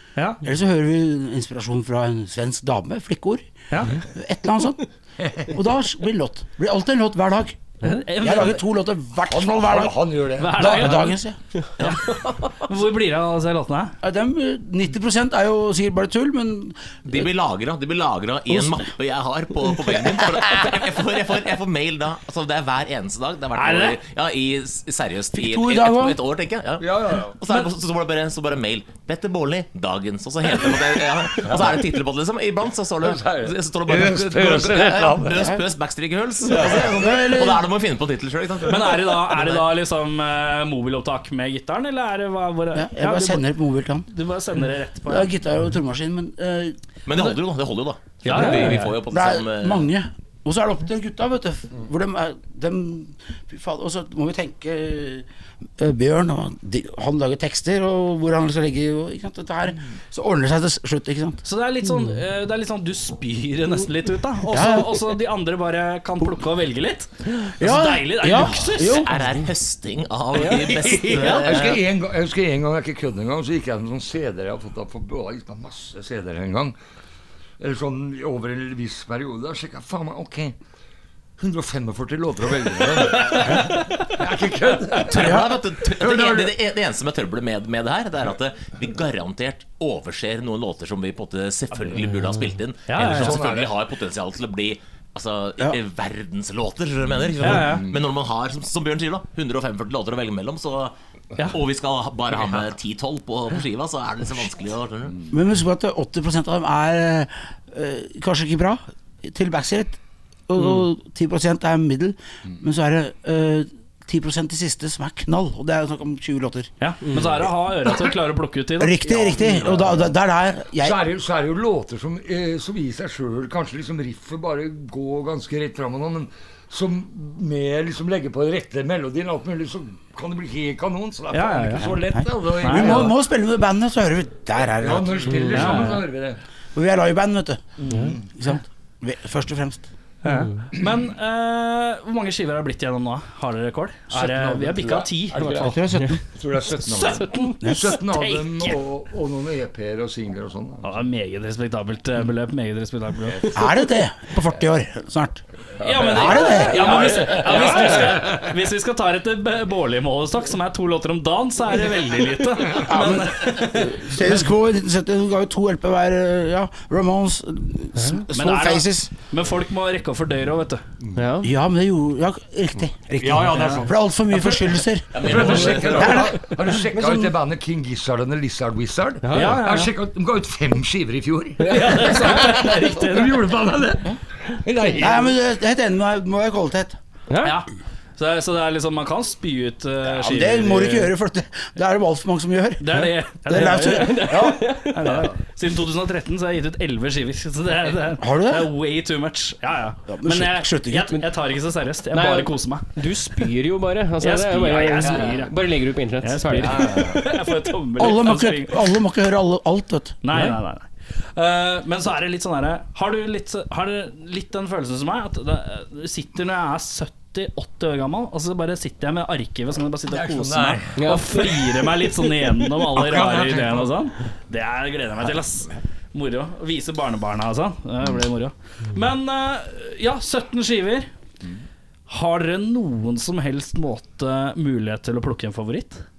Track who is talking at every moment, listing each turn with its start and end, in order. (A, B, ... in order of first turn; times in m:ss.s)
0:00.2-0:00.4 A
0:00.4-0:04.9 B
0:03.7-0:04.0 A
0:05.2-0:05.5 C
0:05.5-0:07.6 B
0:07.8-0:08.6 A
0:08.2-0:10.0 B
0:09.3-0:11.1 C
0:10.4-0:11.2 A
0:10.5-0:11.4 B
0:11.8-0:12.3 D
0:11.8-0:14.0 A
0:14.0-0:17.2 B
0:17.0-0:39.7 D
0:23.6-0:24.0 A
0:25.3-0:26.2 B
0:26.8-0:27.3 C
0:33.0-0:35.5 C
0:36.5-0:37.2 C
0:36.9-0:37.6 B
0:38.7-0:43.4 A
0:42.7-0:44.1 B
0:44.1-0:45.3 A
0:45.1-0:46.8 B
0:47.1-0:49.9 D
0:48.2-0:48.9 A
0:49.1-0:55.3 B
0:55.8-1:01.4 B
1:01.4-1:09.1 A
1:04.5-1:05.0 B
1:07.5-1:09.2 B
1:08.9-1:11.8 D
1:10.4-1:16.8 C
1:17.6-1:20.6 C
1:21.4-1:26.6 C
1:25.0-1:41.0 D
1:25.2-1:25.5 B
1:32.9-1:33.4 A
1:33.0-1:33.7 C
1:37.1-1:38.0 C
1:37.4-1:37.9 A
1:41.5-1:45.2 D
1:45.3-1:56.7 B
1:56.8-1:59.8 A
1:58.8-2:01.0 B
1:59.4-2:00.1 C
2:00.8-2:13.2 C
2:11.3-2:11.9 A
2:11.8-2:16.0 B
2:12.6-2:13.2 A
2:14.8-2:16.4 C
2:15.5-2:16.0 A
2:16.8-2:17.6 B
2:17.8-2:18.3 C
2:18.3-2:19.8 B
2:20.2-2:25.8 A
2:24.1-2:30.9 C
2:25.4-2:26.2 B
2:26.8-2:28.8 A
2:27.6-2:27.9 B
2:30.8-2:33.6 A
2:33.3-2:33.6 C
2:33.5-2:35.4 B
2:35.8-2:44.4 A
2:35.8-2:38.5 C
2:36.0-2:38.0 B
2:42.8-2:49.1 B
2:48.3-2:50.8 A
2:51.0-2:51.4 C
2:51.2-2:51.5 E
2:51.4-2:57.3 B
2:53.2-2:54.6 C
2:53.5-2:53.8 A
2:55.1-2:56.3 D
2:55.2-3:05.3 C
2:59.2-2:59.6 E
2:59.3-2:59.9 A
3:01.6-3:03.5 A
3:05.0-3:07.0 B
3:07.3-3:07.6 E
3:07.4-3:11.1 A
3:10.1-3:14.6 B
3:12.8-3:23.0 A
3:14.2-3:15.1 E
3:18.2-3:18.7 B
3:20.1-3:21.2 B
3:22.1-3:27.2 E
3:24.2-3:25.6 A
3:26.2-3:29.0 A
3:28.0-3:30.2 B
3:30.2-3:51.1 A
3:40.1-3:41.8 C
3:41.0-3:41.8 E
3:42.8-3:43.9 C
3:52.1-3:56.0 A